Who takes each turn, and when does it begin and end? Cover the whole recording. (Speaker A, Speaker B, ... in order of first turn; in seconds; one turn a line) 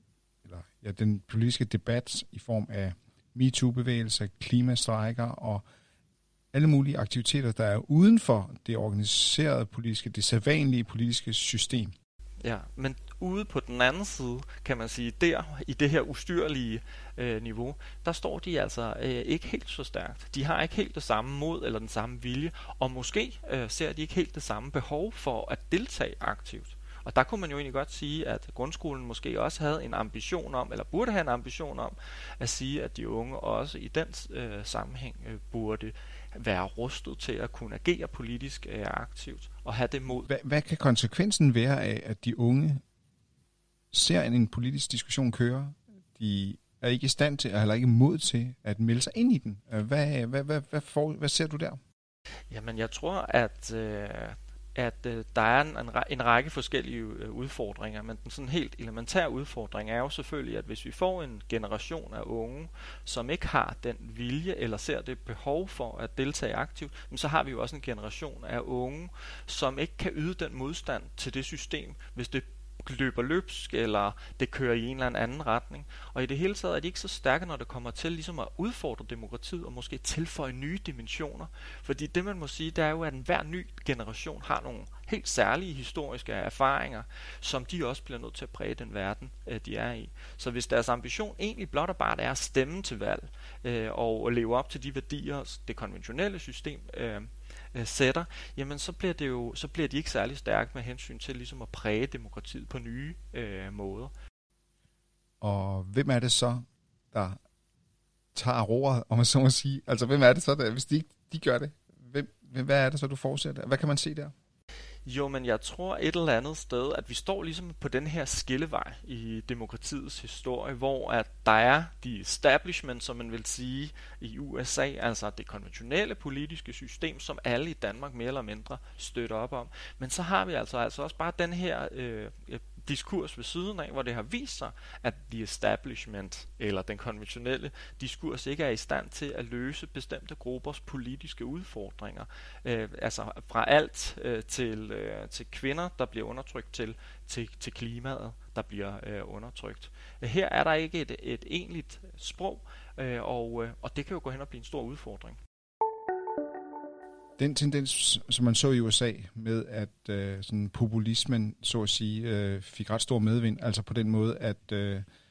Speaker A: 0.4-5.6
Speaker A: 6.5-11.9
Speaker B: 12.4-40.3
Speaker A: 40.3-42.8
Speaker A: 43.9-51.8
Speaker B: 52.5-104.1
Speaker A: 105.4-107.4
Speaker A: 108.3-114.3
Speaker B: 115.0-155.4
Speaker A: 157.4-165.0